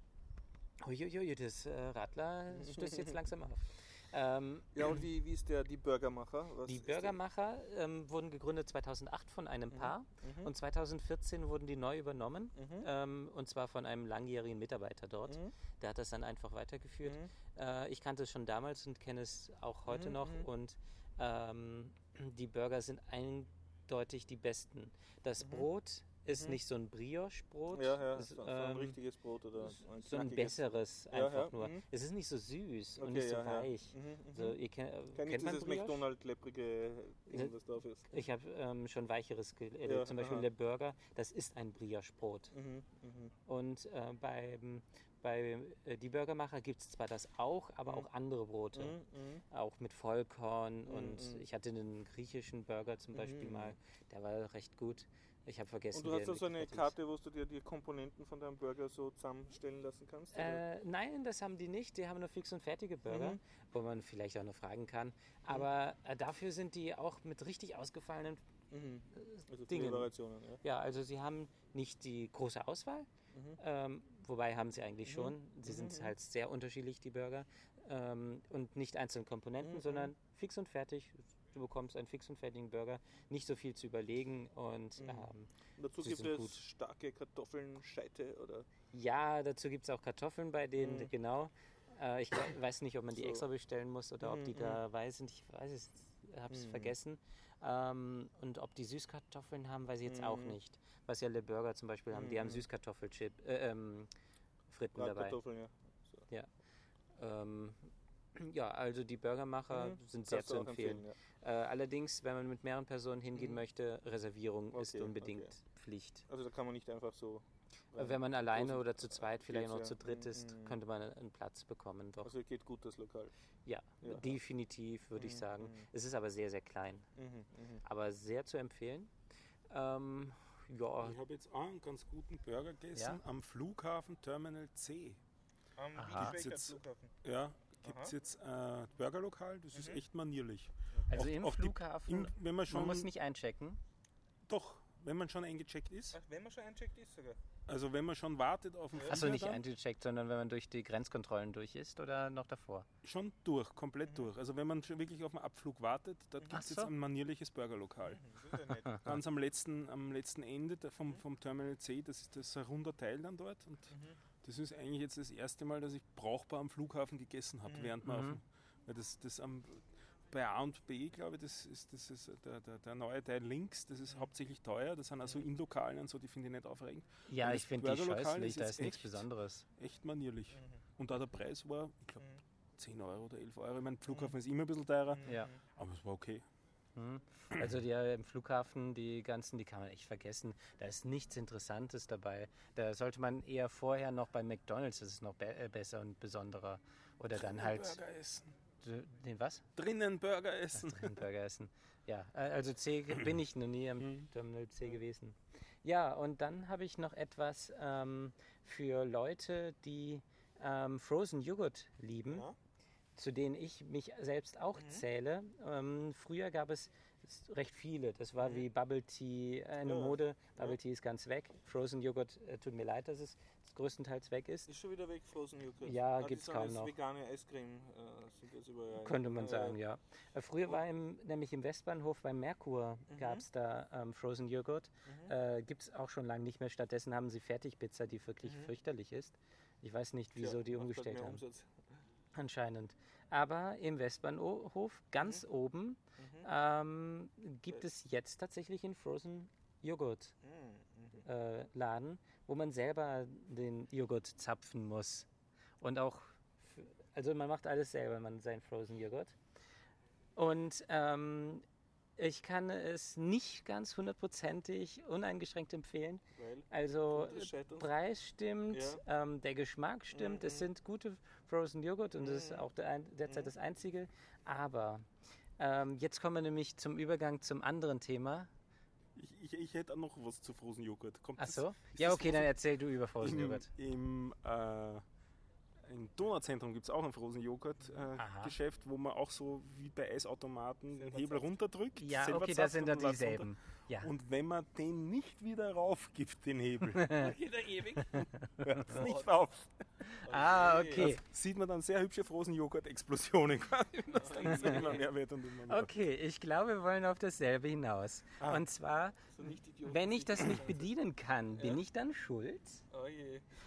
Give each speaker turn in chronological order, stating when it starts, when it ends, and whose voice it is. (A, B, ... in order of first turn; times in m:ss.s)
0:00.8-0:04.8 A
0:02.5-0:03.1 B
0:04.7-0:07.2 B
0:06.6-0:29.0 A
0:09.7-0:10.5 B
0:12.6-0:12.9 B
0:15.3-0:15.5 B
0:17.0-0:17.3 B
0:19.9-0:20.5 B
0:25.4-0:25.7 B
0:26.3-0:26.6 B
0:27.7-0:31.8 B
0:29.6-0:36.0 A
0:33.0-0:34.6 B
0:35.1-0:38.1 B
0:38.1-0:42.5 A
0:39.8-0:40.5 B
0:42.5-0:43.3 B
0:43.5-0:49.0 A
0:48.7-0:49.4 B
0:49.5-0:56.9 A
0:50.8-0:51.4 B
0:53.1-0:53.8 B
0:55.9-1:00.6 B
1:00.3-1:08.4 A
1:03.1-1:03.4 B
1:08.7-1:10.6 B
1:09.1-1:10.1 A
1:10.6-1:13.1 A
1:13.3-1:13.6 B
1:13.6-1:25.5 A
1:15.0-1:16.1 B
1:19.6-1:20.1 B
1:25.0-1:28.7 B
1:26.0-1:26.6 A
1:28.9-1:44.1 A
1:30.8-1:31.1 B
1:33.1-1:33.4 B
1:34.2-1:34.8 B
1:36.5-1:36.9 B
1:40.0-1:40.6 B
1:42.1-1:42.6 B
1:44.7-1:45.4 A
1:44.9-1:46.3 B
1:47.2-1:56.2 A
1:49.7-1:51.1 B
1:53.3-1:53.6 B
1:54.7-1:55.5 B
1:56.3-2:00.8 B
1:58.0-2:02.3 A
2:02.2-2:03.3 B
2:03.6-2:07.0 A
2:04.0-2:04.4 B
2:05.1-2:05.8 B
2:07.2-2:07.8 B
2:07.8-2:09.1 A
2:09.7-2:11.2 A
2:11.0-2:15.2 C
2:15.8-2:17.1 B
2:16.0-2:16.4 A
2:16.1-2:23.1 C
2:17.8-2:18.1 B
2:19.7-2:20.0 B
2:21.1-2:23.8 A
2:24.5-2:26.2 C
2:26.1-2:27.4 B
2:27.7-2:29.6 C
2:28.9-2:29.2 B
2:29.0-2:32.8 A
2:33.0-2:38.2 C
2:36.5-2:36.9 A
2:38.1-2:39.2 B
2:39.0-3:02.2 C
2:43.9-2:44.2 B
2:47.6-2:47.9 B
2:48.0-2:48.4 A
2:57.3-2:59.6 A
3:00.5-3:00.8 B
3:02.8-3:06.4 C
3:04.1-3:04.3 B
3:05.1-3:05.6 B
3:05.2-3:05.5 A
3:07.0-3:18.0 A
3:17.3-3:18.5 C
3:18.8-3:19.6 A
3:19.8-3:21.2 C
3:20.7-3:32.5 A
3:24.0-3:24.3 C
3:32.3-3:32.6 B
3:33.2-3:44.7 A
3:34.8-3:35.0 B
3:38.4-3:38.7 B
3:39.8-3:40.8 B
3:44.7-3:49.8 B
3:45.8-3:46.9 A
3:49.0-4:01.4 A
3:53.1-3:53.4 B
3:55.1-3:55.3 B
3:58.4-3:58.7 B
4:00.4-4:01.9 B
4:02.3-4:10.3 A
4:06.2-4:06.5 B
4:10.4-4:11.2 B
4:11.2-4:15.2 A
4:15.8-4:19.3 A
4:20.4-4:21.6 A
4:22.2-4:35.0 A
4:26.4-4:27.9 B
4:28.7-4:29.0 B
4:30.1-4:30.7 B
4:32.2-4:32.7 B
4:33.2-4:33.5 B
4:35.6-4:38.5 A
4:39.2-4:42.5 C
4:41.4-4:43.7 A
4:43.2-4:45.0 C
4:45.8-4:53.5 C
4:48.2-4:48.5 A
4:50.9-4:51.6 B
4:52.0-4:54.1 A
4:54.0-4:57.1 C
4:56.9-4:57.3 A
4:57.1-4:58.3 B
4:58.1-4:58.8 A
4:58.6-5:05.9 C
4:58.8-4:59.3 B
5:00.2-5:01.1 B
5:00.2-5:01.2 A
5:04.1-5:05.0 B
5:04.4-5:05.0 A
5:05.7-5:09.2 A
5:09.3-5:10.9 B
5:09.9-5:12.8 A
5:11.6-5:11.8 B
5:12.9-5:13.4 B